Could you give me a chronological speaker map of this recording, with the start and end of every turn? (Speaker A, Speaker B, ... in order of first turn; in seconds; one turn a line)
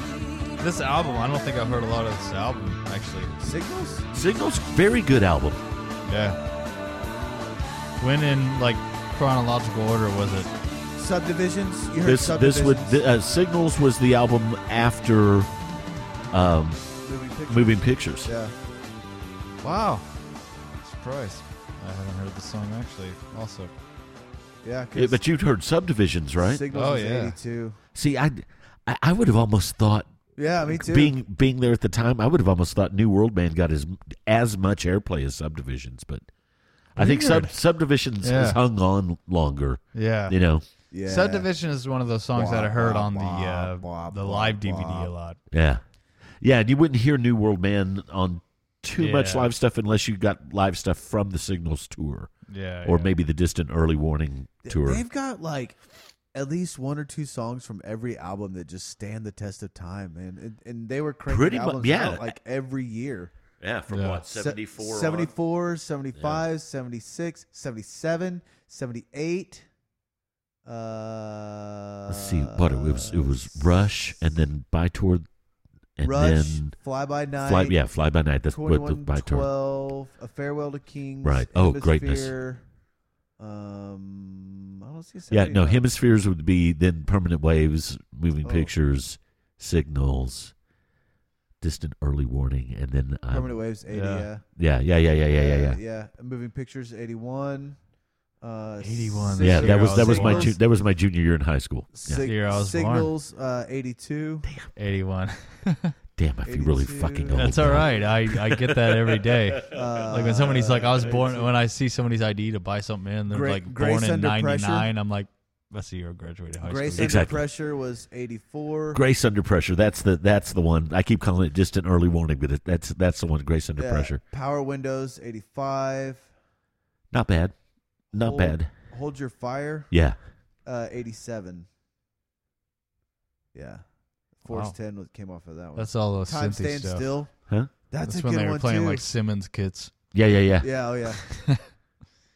Speaker A: 0.6-3.4
Speaker B: 3.4-4.1
Speaker C: 4.1-5.6
Speaker A: 6.0-6.4
Speaker A: 8.0-10.5
Speaker B: 11.0-13.0
Speaker C: 12.0-15.5
Speaker C: 16.3-16.9
Speaker B: 17.0-18.5
Speaker C: 17.5-18.3
Speaker A: 19.6-20.0
Speaker A: 20.8-23.7
Speaker B: 24.6-25.2
Speaker C: 24.9-26.6
Speaker B: 26.4-27.8
Speaker A: 26.7-27.4
Speaker C: 27.9-30.1
Speaker B: 30.4-31.1
Speaker C: 30.7-36.2
Speaker C: 36.9-40.6
Speaker A: 37.0-37.5
Speaker A: 38.2-38.6
Speaker A: 39.9-40.3
Speaker B: 40.9-41.5
Speaker A: 41.0-45.4
Speaker B: 42.3-45.1
Speaker C: 45.5-45.8
Speaker C: 46.4-55.0
Speaker A: 49.0-49.5
Speaker A: 52.5-53.1
Speaker B: 54.6-55.8
Speaker B: 56.3-63.3
Speaker C: 61.3-62.3
Speaker C: 63.6-65.3
Speaker A: 63.9-64.2
Speaker B: 64.3-69.7
Speaker C: 66.2-66.4
Speaker B: 70.6-73.9
Speaker C: 72.1-75.2
Speaker C: 76.0-76.8
Speaker B: 76.0-77.8
Speaker C: 77.4-79.5
Speaker B: 78.5-82.6
Speaker C: 81.2-82.3
Speaker B: 83.4-85.8
Speaker C: 85.3-90.5
Speaker B: 88.4-88.7
Speaker C: 91.6-93.5
Speaker B: 93.3-94.5
Speaker A: 93.9-94.3
Speaker C: 94.5-95.8
Speaker B: 95.3-97.8
Speaker B: 98.4-100.6
Speaker A: 98.8-100.5
Speaker C: 99.4-102.2
Speaker B: 101.9-104.5
Speaker A: 102.2-103.1
Speaker C: 104.4-104.7
Speaker A: 104.7-105.9
Speaker C: 106.2-109.8
Speaker B: 106.4-107.8
Speaker A: 107.3-117.2
Speaker B: 109.7-111.5
Speaker B: 113.3-114.9
Speaker B: 116.6-119.0
Speaker C: 117.0-117.4
Speaker C: 118.9-124.2
Speaker B: 123.8-126.3
Speaker C: 127.1-127.5
Speaker C: 128.1-128.7
Speaker B: 128.1-129.9
Speaker C: 129.9-130.2
Speaker B: 130.6-131.7
Speaker B: 133.5-133.8
Speaker B: 134.4-137.3
Speaker A: 134.5-134.7
Speaker A: 135.8-137.1
Speaker B: 137.9-139.1
Speaker A: 138.0-139.9
Speaker C: 140.1-140.7
Speaker B: 140.6-141.2
Speaker A: 141.2-141.6